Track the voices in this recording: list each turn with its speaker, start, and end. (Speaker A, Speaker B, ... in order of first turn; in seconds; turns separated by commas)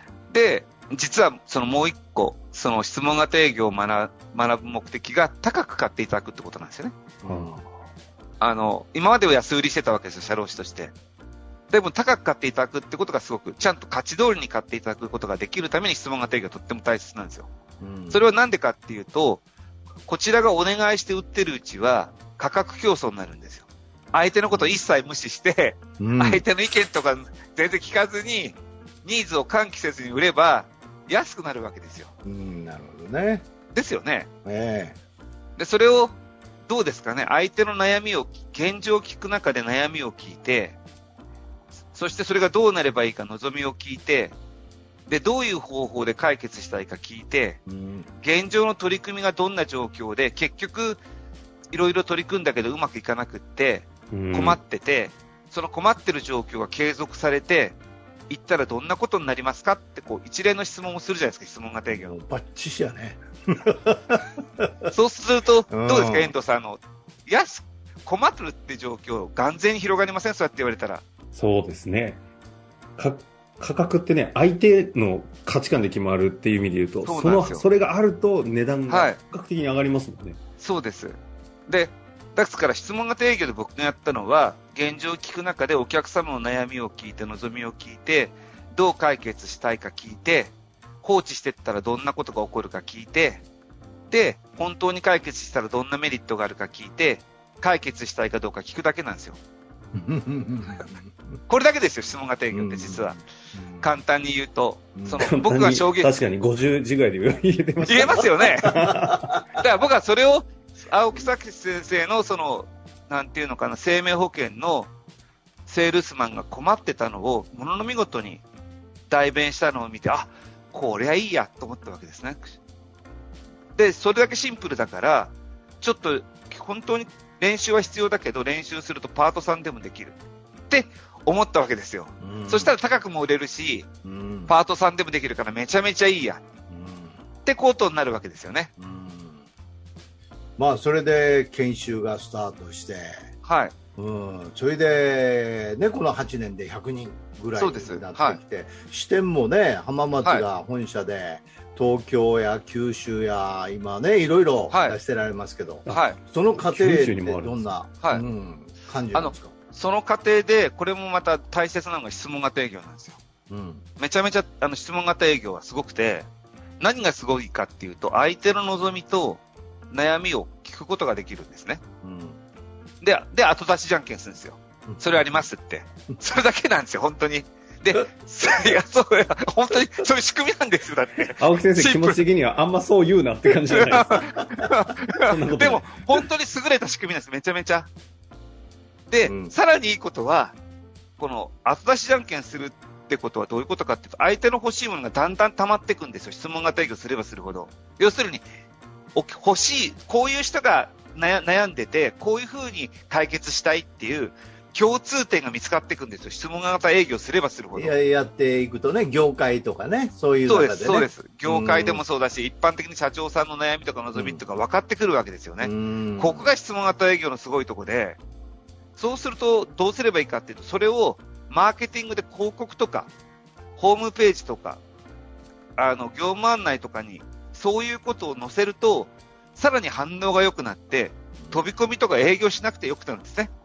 Speaker A: 0.3-7.0, Speaker B: 7.2-7.6, Speaker C: 7.2-7.7, Speaker A: 8.4-10.9, Speaker A: 11.7-17.5, Speaker B: 17.8-18.2, Speaker A: 18.1-19.4, Speaker A: 20.1-32.1, Speaker B: 24.5-24.8, Speaker B: 26.0-26.4, Speaker B: 32.2-33.4, Speaker A: 33.7-34.3, Speaker B: 34.4-35.0, Speaker A: 35.6-40.8, Speaker A: 41.9-44.3, Speaker A: 45.1-47.6, Speaker B: 47.7-48.1, Speaker A: 48.2-51.0, Speaker A: 51.7-57.8, Speaker C: 54.1-54.6, Speaker A: 58.3-62.1, Speaker B: 61.9-64.9, Speaker A: 64.9-71.0, Speaker B: 65.7-66.3, Speaker C: 71.3-72.2, Speaker C: 73.0-80.4, Speaker A: 77.0-77.6, Speaker A: 78.9-79.2, Speaker A: 80.6-93.4, Speaker A: 94.1-99.4, Speaker B: 99.9-101.3, Speaker A: 101.5-103.2, Speaker B: 102.5-103.9, Speaker A: 103.8-106.2, Speaker B: 105.0-105.3, Speaker C: 105.2-109.4, Speaker A: 107.8-108.7, Speaker B: 108.9-109.1, Speaker A: 109.6-114.9, Speaker A: 115.7-118.4, Speaker A: 119.1-122.5, Speaker A: 123.7-130.2, Speaker A: 130.7-133.9, Speaker B: 132.2-132.7, Speaker B: 134.0-134.5, Speaker A: 134.5-136.4, Speaker B: 136.7-137.2, Speaker A: 137.4-138.7, Speaker B: 138.8-139.5, Speaker B: 140.6-143.2, Speaker A: 143.4-143.7, Speaker B: 144.0-159.5, Speaker A: 147.6-148.4, Speaker A: 154.7-155.0, Speaker A: 155.9-156.2, Speaker C: 156.6-157.8, Speaker A: 159.1-163.2, Speaker B: 163.5-163.8, Speaker A: 164.0-166.3, Speaker A: 166.8-171.8, Speaker B: 172.0-172.4, Speaker A: 173.0-182.2, Speaker B: 174.9-175.2, Speaker C: 181.3-184.2, Speaker A: 183.7-187.9, Speaker C: 185.3-185.9, Speaker A: 189.1-190.6, Speaker B: 189.2-189.5, Speaker A: 191.2-198.4, Speaker A: 199.1-207.9, Speaker B: 207.7-212.0, Speaker A: 210.4-218.2, Speaker B: 214.1-214.4, Speaker B: 215.6-216.5, Speaker A: 218.9-223.1, Speaker A: 223.8-224.8, Speaker A: 225.8-233.5, Speaker B: 231.4-231.7